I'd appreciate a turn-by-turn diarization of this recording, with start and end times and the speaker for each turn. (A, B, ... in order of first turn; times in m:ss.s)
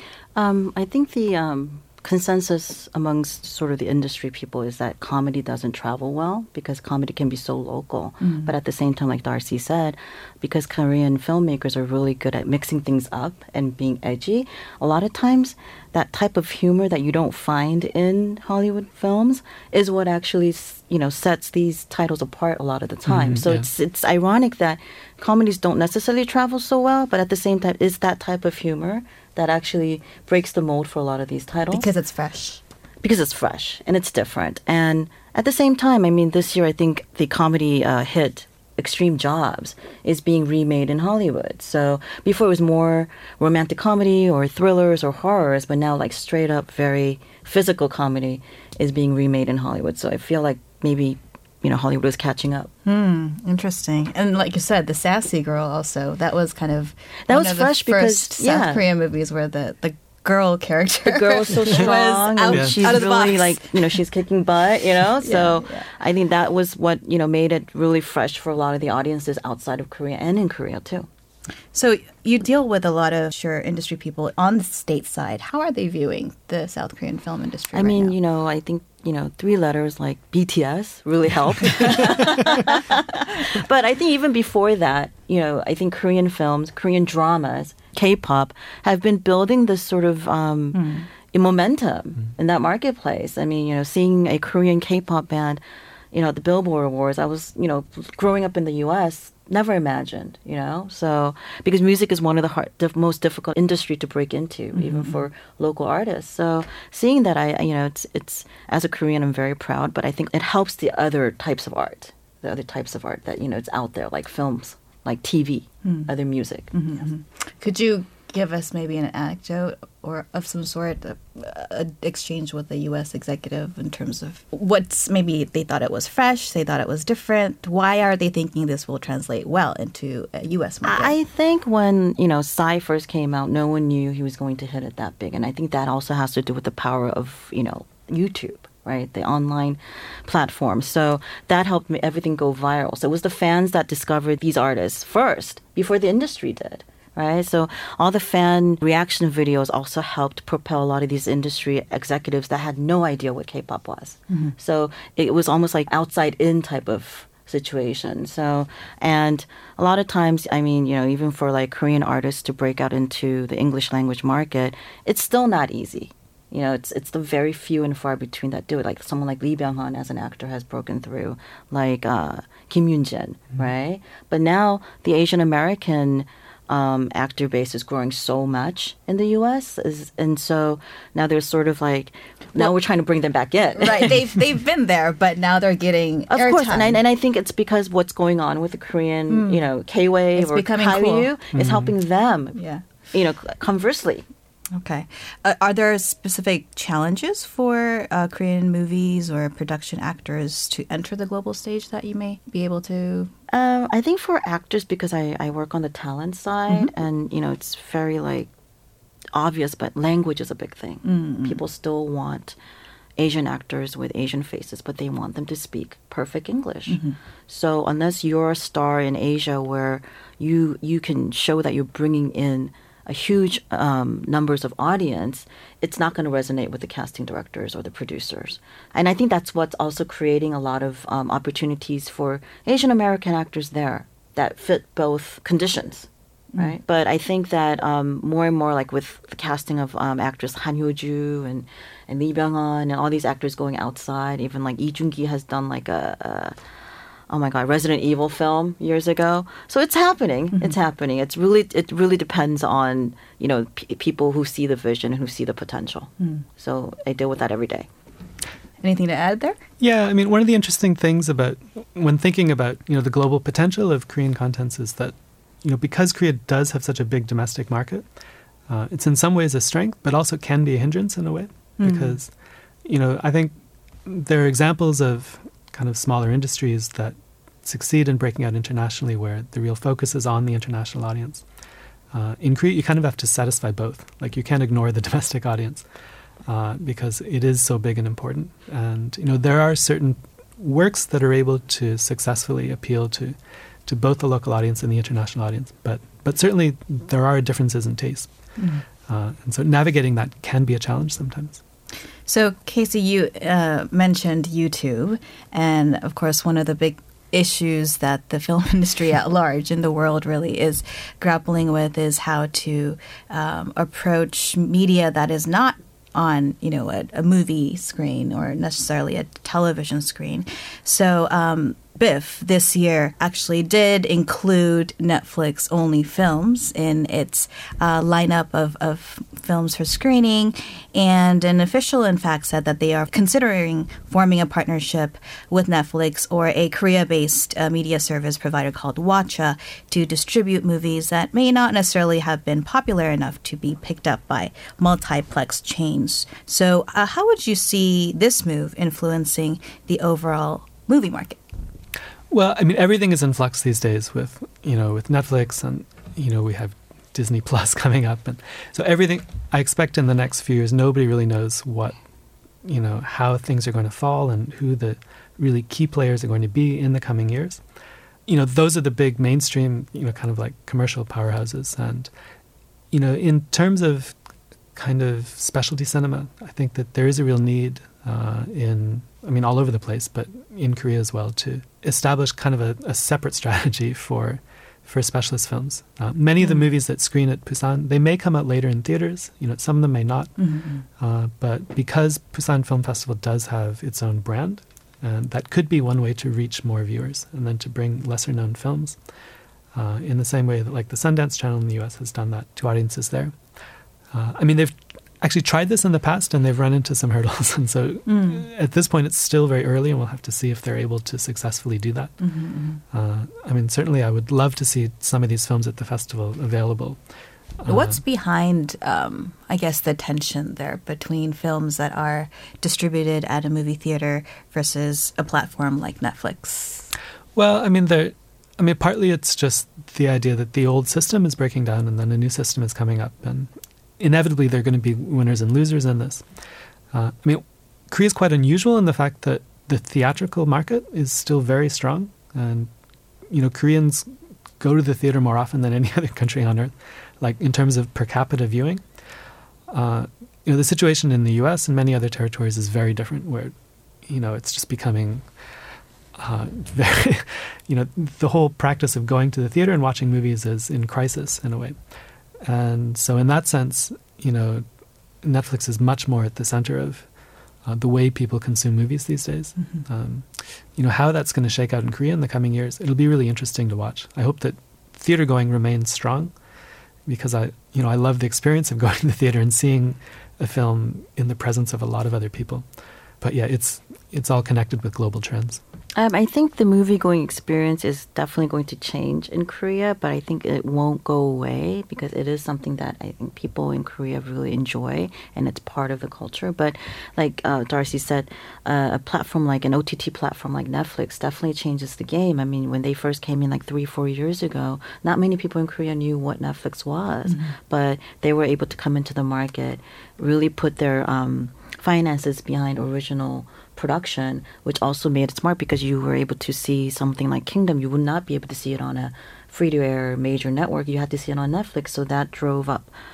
0:00.4-0:31.8 A
0:08.2-0:08.5 B
0:23.1-0:23.6 C
0:31.7-0:32.6 B
0:33.0-0:52.7 A
0:52.8-1:03.7 B
0:57.3-0:58.9 A
1:01.0-1:11.1 A
1:02.5-1:02.9 C
1:05.2-1:05.9 B
1:11.7-1:18.2 B
1:17.7-1:35.6 A
1:21.8-1:22.6 B
1:30.7-1:31.0 B
1:36.1-1:56.7 A
1:44.7-1:45.2 B
1:56.7-2:11.1 B
2:10.8-3:04.2 A
2:34.3-2:34.5 B
3:03.8-3:07.0 B
3:06.3-3:12.6 A
3:09.3-3:09.6 B
3:10.3-3:11.3 B
3:11.5-3:11.9 C
3:12.5-3:12.8 B
3:13.1-3:14.2 A
3:14.7-3:23.3 B
3:23.5-3:28.5 A
3:29.3-3:32.6 A
3:31.0-3:31.6 B
3:33.2-4:06.6 A
3:36.9-3:37.2 B
4:07.3-4:17.9 A
4:18.8-4:19.6 B
4:19.8-4:28.0 C
4:28.7-4:32.3 C
4:31.8-4:32.2 B
4:32.8-4:41.4 C
4:42.1-4:45.8 C
4:46.4-4:58.3 C
4:58.6-4:58.8 B
4:59.1-5:01.6 C
5:02.3-5:51.4 B
5:52.3-6:02.0 C
6:02.6-6:07.6 C
6:08.3-6:12.1 C
6:12.9-6:14.2 C
6:14.7-6:30.4 C
6:30.4-6:30.8 B
6:31.0-6:39.0 C
6:39.7-6:43.4 C
6:44.1-6:52.1 C
6:48.0-6:48.4 B
6:52.2-6:52.8 B
6:52.9-6:57.0 C
6:57.6-6:58.0 C
6:57.7-7:06.9 B
7:07.3-7:16.2 C
7:16.9-7:22.7 C
7:23.3-7:24.1 C
7:24.6-7:28.8 C
7:29.7-7:33.5 C
7:34.0-7:35.3 C
7:36.2-7:41.8 C
7:42.4-7:44.6 C
7:45.2-7:47.1 C
7:47.6-7:56.3 C
7:57.1-8:02.6 C
8:03.2-8:05.6 C
8:06.0-8:42.9 A
8:27.3-8:27.5 B